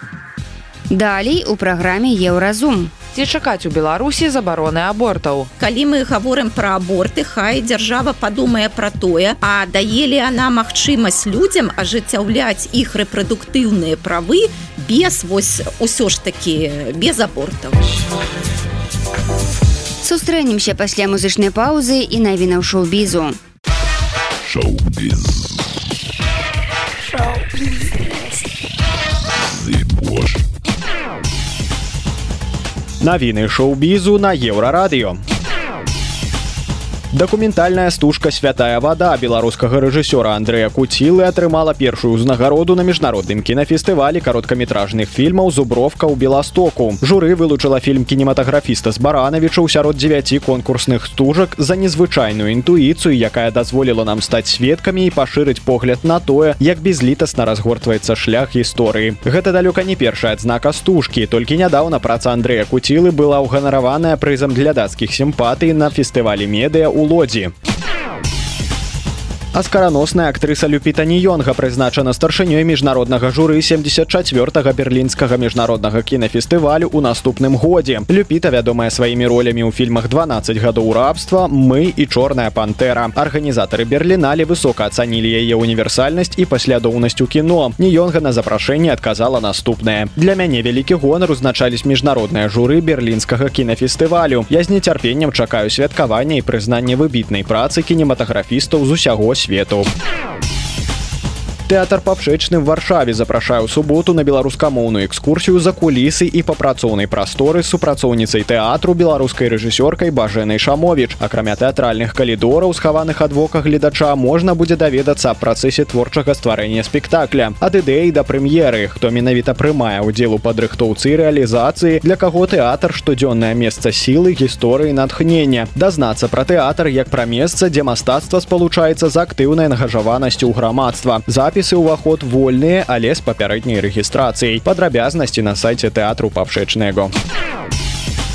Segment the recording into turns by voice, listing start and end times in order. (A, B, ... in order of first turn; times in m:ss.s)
0:00.9-0:02.9 A
0:03.1-0:05.5 B
0:05.6-0:17.8 C
0:20.0-0:23.4 A
0:24.4-0:25.6 D
0:29.4-0:30.4 D
0:33.0-0:35.2 E
0:37.1-1:07.5 E
1:09.5-1:39.9 E
1:41.7-2:17.1 E